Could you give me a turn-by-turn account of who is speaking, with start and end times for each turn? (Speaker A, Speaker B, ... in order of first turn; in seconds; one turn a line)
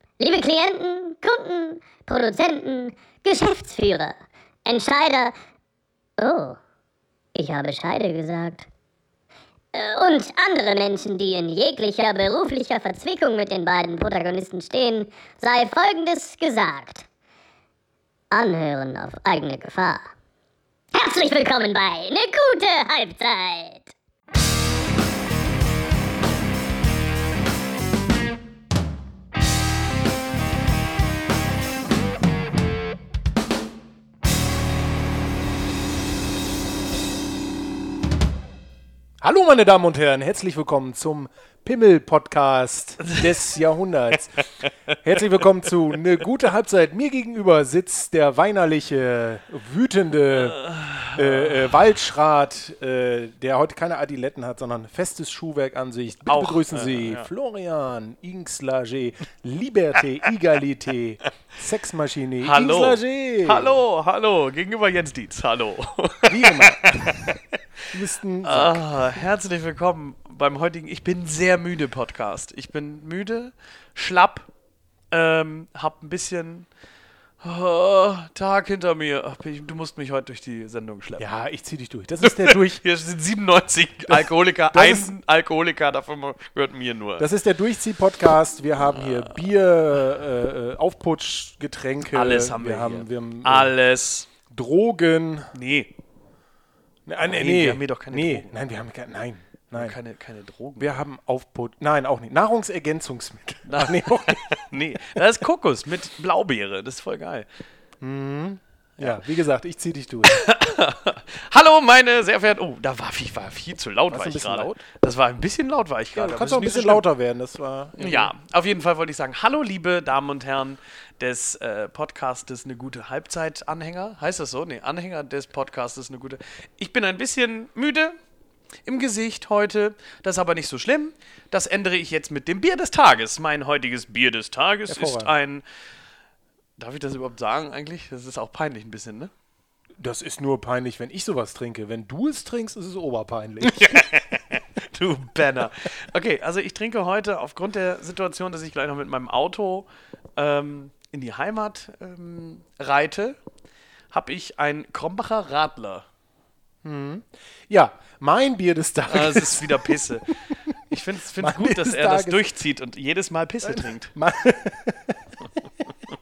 Speaker A: 0.2-5.3
Speaker A: 6.2-6.6
Speaker A: 7.3-8.7
Speaker A: 9.7-17.0
Speaker A: 18.3-20.1
Speaker A: 20.9-23.9
Speaker B: 39.2-44.4
Speaker B: 45.0-50.6
Speaker C: 50.3-51.7
Speaker B: 51.1-63.8
Speaker C: 56.2-57.3
Speaker C: 62.4-67.4
Speaker B: 66.2-67.3
Speaker B: 67.9-69.1
Speaker C: 68.4-74.5
Speaker C: 75.1-76.7
Speaker C: 77.4-81.2
Speaker B: 81.2-82.8
Speaker C: 82.2-87.3
Speaker B: 84.1-85.1
Speaker B: 87.2-93.7
Speaker C: 92.0-94.3
Speaker B: 94.5-95.5
Speaker C: 95.5-95.9
Speaker B: 97.0-100.0
Speaker C: 97.2-98.5
Speaker C: 99.7-101.0
Speaker B: 100.8-105.2
Speaker C: 103.7-107.5
Speaker B: 108.0-110.4
Speaker C: 110.2-117.0
Speaker B: 114.1-114.8
Speaker B: 116.1-118.3
Speaker C: 118.0-128.2
Speaker C: 128.8-135.6
Speaker B: 134.9-135.3
Speaker C: 136.8-139.3
Speaker B: 140.0-144.1
Speaker C: 143.6-153.4
Speaker C: 154.1-156.1
Speaker B: 156.8-162.5
Speaker C: 159.1-160.4
Speaker C: 160.9-164.1
Speaker B: 163.6-165.9